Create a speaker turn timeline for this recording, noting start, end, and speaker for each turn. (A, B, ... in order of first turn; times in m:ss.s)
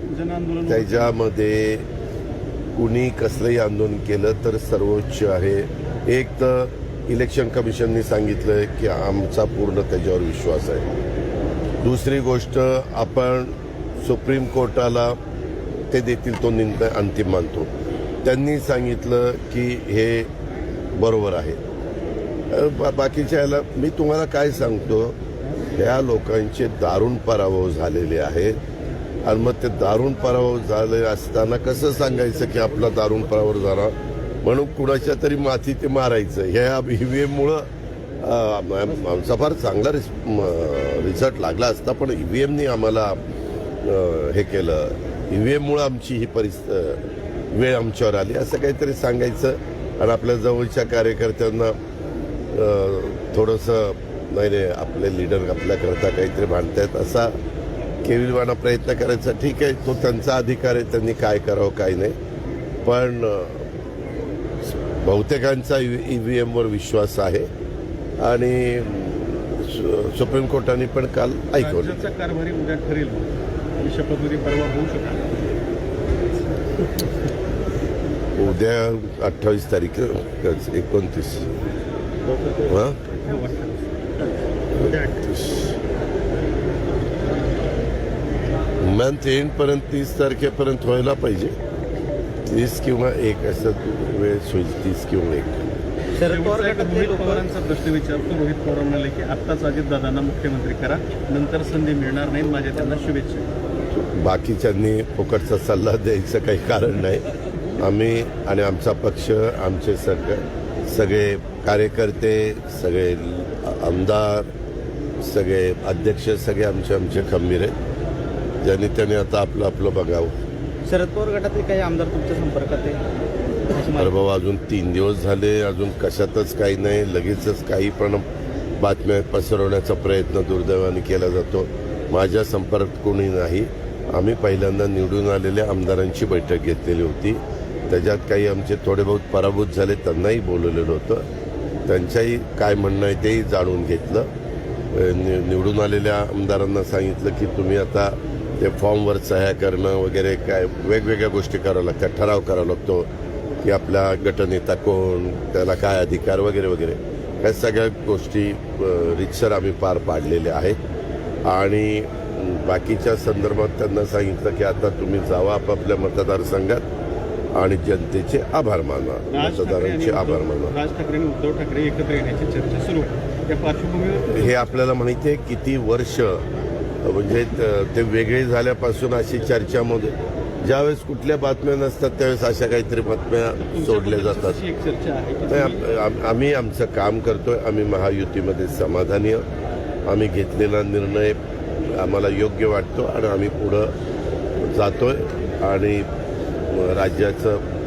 0:00.1-0:01.1 A
0:00.6-0:01.9 B
0:02.7-0:10.9 B
0:11.8-0:15.2 B
0:15.9-0:17.7 B
0:18.2-0:20.3 B
0:21.0-0:21.6 B
0:22.5-0:25.2 B
0:25.7-0:28.6 B
0:29.2-0:37.7 B
0:38.2-0:43.2 B
0:43.8-0:51.8 B
0:52.5-0:57.4 B
0:58.0-1:02.2 B
1:02.8-1:03.7 B
1:05.0-1:07.5 B
1:08.2-1:12.0 B
1:11.5-1:15.4 A
1:18.3-1:21.5 B
1:22.6-1:23.0 B
1:23.2-1:24.1 A
1:25.0-1:25.8 B
1:28.8-1:31.6 B
1:32.4-1:35.7 B
1:36.1-1:37.4 C
1:36.2-1:43.5 A
1:43.9-1:47.2 B
1:47.8-1:54.5 B
1:55.2-1:57.7 B
1:58.6-2:00.3 B
2:00.8-2:03.0 C
2:03.7-2:04.1 C
2:04.0-2:08.2 B
2:08.8-2:21.2 B
2:21.9-2:24.3 B
2:24.9-2:33.1 B
2:33.6-2:40.8 B
2:41.5-2:46.9 B
2:47.5-2:50.8 B
2:49.3-2:54.8 A
2:54.3-2:56.4 B
2:57.0-3:04.6 B
3:03.7-3:05.9 A
3:05.5-3:09.4 B
3:10.1-3:13.9 B
3:14.6-3:16.1 B
3:16.7-3:17.6 B